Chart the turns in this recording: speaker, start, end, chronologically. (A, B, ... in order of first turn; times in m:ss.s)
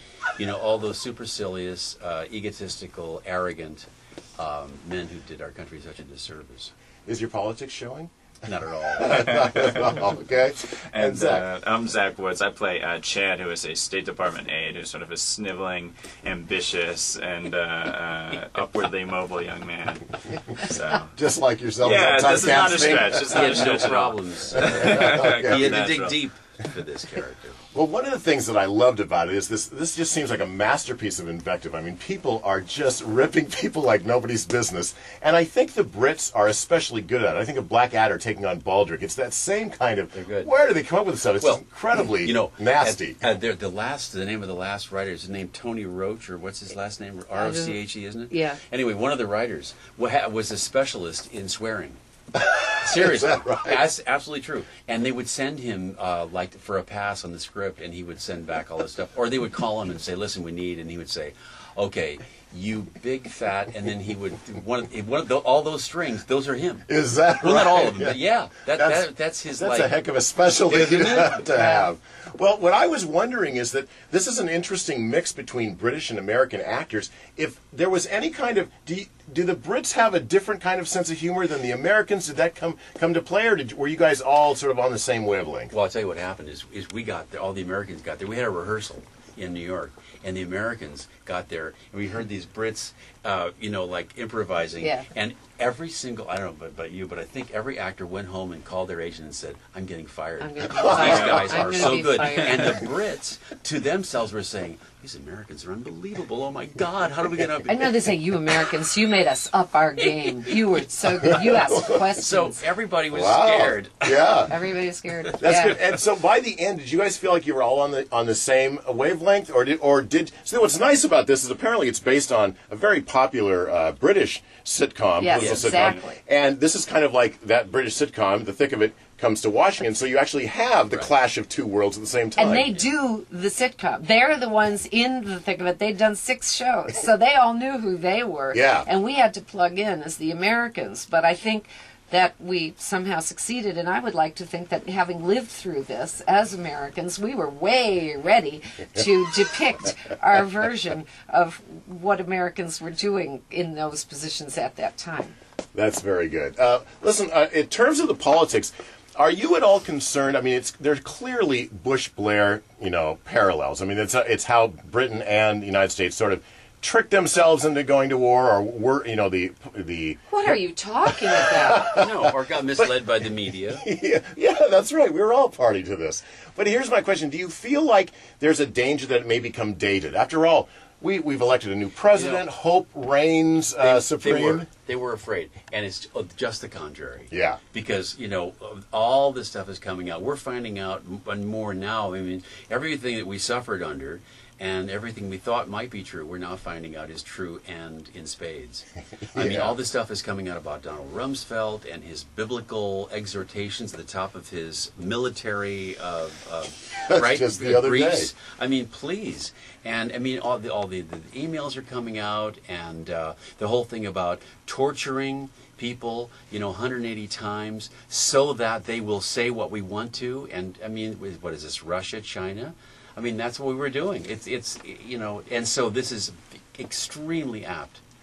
0:00.4-0:03.8 A
0:04.4-0:06.7 A
0:07.0-0:08.1 B
0:08.4-0:09.4 A
0:08.9-0:11.4 B
0:09.4-0:09.7 C
0:10.9-0:21.1 C
0:21.1-0:23.5 B
0:21.8-0:26.2 C
0:23.2-0:27.6 A
0:24.5-0:25.7 B
0:27.7-0:43.2 B
0:40.1-0:40.5 A
0:41.4-0:52.0 A
0:47.4-0:47.8 D
0:48.3-0:48.6 D
0:52.5-0:53.8 B
0:52.8-1:09.9 A
1:06.9-1:08.2 B
1:08.7-1:25.7 B
1:10.6-1:11.7 A
1:25.7-1:47.9 A
1:34.8-1:35.1 D
1:40.4-1:42.8 D
1:41.0-1:41.9 C
1:47.6-1:52.6 D
1:51.5-1:52.0 B
1:52.2-1:54.4 A
1:53.1-1:54.5 B
1:54.4-1:55.8 D
1:55.4-2:12.7 B
2:05.2-2:06.2 D
2:05.4-2:05.7 A
2:05.6-2:06.0 C
2:12.4-2:35.4 D
2:18.5-2:18.9 B
2:35.7-2:50.3 B
2:50.3-2:52.0 D
2:51.4-2:52.3 B
2:51.8-2:53.8 A
2:53.7-3:04.7 B
3:02.1-3:02.5 A
3:03.8-3:48.0 A
3:07.3-3:07.6 B
3:19.3-3:19.7 B
3:27.1-3:28.3 B